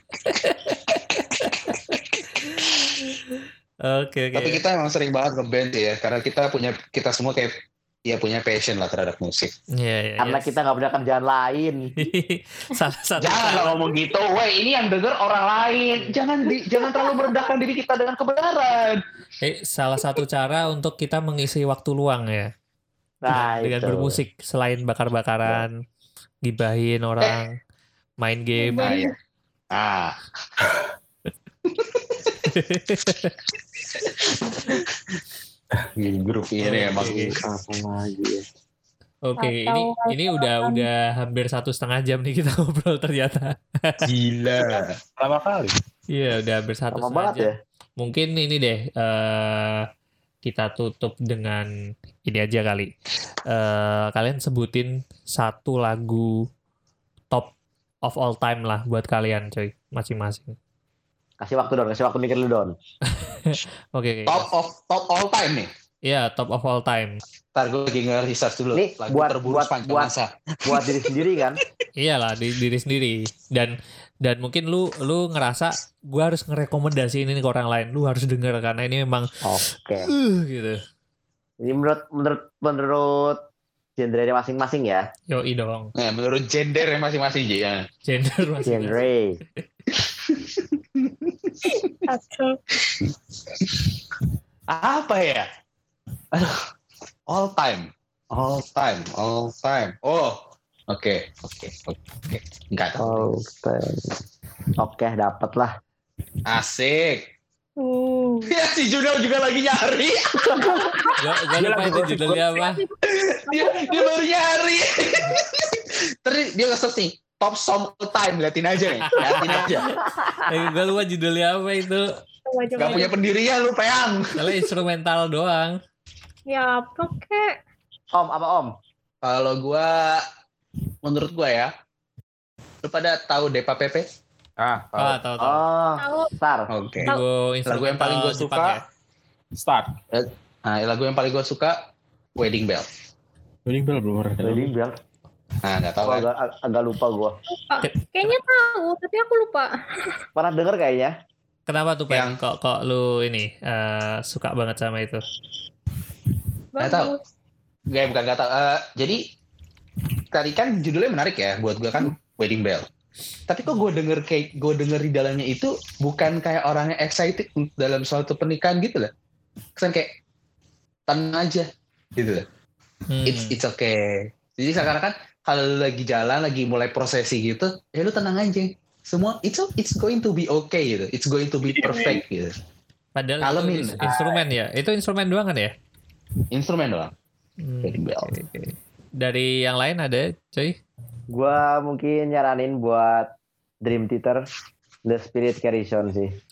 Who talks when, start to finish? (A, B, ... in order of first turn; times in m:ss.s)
0:00.3-0:04.6 A
0:04.4-0:09.5 B
0:09.8-0:10.5 A
0:10.2-0:11.9 C
0:12.0-0:13.8 A
0:13.2-0:19.0 B
0:19.4-0:22.5 A
0:23.2-0:24.2 C
0:23.3-0:25.7 A
0:26.4-0:27.5 A
0:28.2-0:29.0 A
0:28.6-0:29.1 D
0:28.8-0:29.1 B
0:29.7-0:30.2 B
0:31.7-0:32.4 B
0:32.5-0:33.4 A
0:34.0-0:34.9 B
0:36.0-0:37.4 B
0:36.6-0:37.4 A
0:37.0-0:37.4 E
0:37.4-0:38.4 C
0:39.2-0:44.0 A
0:39.4-0:40.9 D
0:44.1-0:44.9 B
0:45.2-0:45.8 E
0:46.1-0:49.8 A
0:46.9-0:47.5 C
0:50.4-0:51.7 A
0:52.2-0:52.9 A
0:53.5-0:56.3 A
0:58.0-1:00.6 A
1:01.4-1:02.7 C
1:03.1-1:04.5 A
1:04.3-1:05.7 B
1:06.0-1:07.2 A
1:07.5-1:11.6 B
1:08.8-1:10.1 C
1:10.6-1:11.6 C
1:12.0-1:19.2 A
1:19.4-1:20.1 C
1:20.1-1:20.8 A
1:21.6-1:23.4 C
1:24.0-1:25.0 C
1:25.3-1:25.9 A
1:26.0-1:27.9 B
1:28.1-1:29.1 A
1:28.6-1:29.4 C
1:29.9-1:31.7 B
1:31.7-1:32.6 D
1:33.0-1:33.9 B
1:34.7-1:35.5 B
1:36.3-1:36.7 B
1:37.3-1:43.3 B
1:43.0-1:44.1 C
1:44.8-1:45.7 C
1:46.5-1:47.3 B
1:47.8-1:48.6 D
1:48.5-1:51.1 B
1:50.6-1:51.1 D
1:51.2-1:52.8 A
1:51.6-1:52.6 E
1:52.6-1:53.0 D
1:53.1-1:59.9 B
1:53.5-1:54.2 D
1:59.2-1:59.8 A
2:00.4-2:02.1 A
2:02.5-2:03.2 D
2:02.8-2:04.6 B
2:02.8-2:03.1 A
2:04.4-2:05.8 A
2:06.5-2:07.6 D
2:08.1-2:08.7 C
2:09.2-2:10.3 B
2:11.0-2:11.7 B
2:12.8-2:14.1 B
2:14.6-2:15.2 E
2:15.0-2:15.6 A
2:15.4-2:16.7 C
2:16.0-2:16.3 D
2:16.7-2:17.1 B
2:17.0-2:18.8 A
2:17.7-2:18.8 B
2:19.6-2:19.9 E
2:20.1-2:21.8 B
2:22.4-2:22.9 B
2:23.7-2:24.7 E
2:24.4-2:24.9 C
2:25.6-2:26.3 B
2:26.0-2:27.3 C
2:27.7-2:29.7 D
2:27.8-2:28.4 A
2:30.4-2:31.1 C
2:31.7-2:35.2 A
2:32.1-2:32.4 B
2:36.7-2:37.2 D
2:36.8-2:37.1 B
2:37.9-2:39.2 B
2:40.3-2:42.9 B
2:43.5-2:49.1 B
2:49.8-2:50.2 B
2:51.1-2:52.4 B
2:53.1-2:53.6 A
2:53.3-3:02.6 B
3:01.7-3:02.2 E
3:03.2-3:05.7 A
3:03.4-3:04.4 B
3:06.5-3:07.1 B
3:07.6-3:10.8 A
3:07.8-3:08.3 B
3:11.3-3:13.3 C
3:13.8-3:14.4 C
3:15.1-3:16.3 C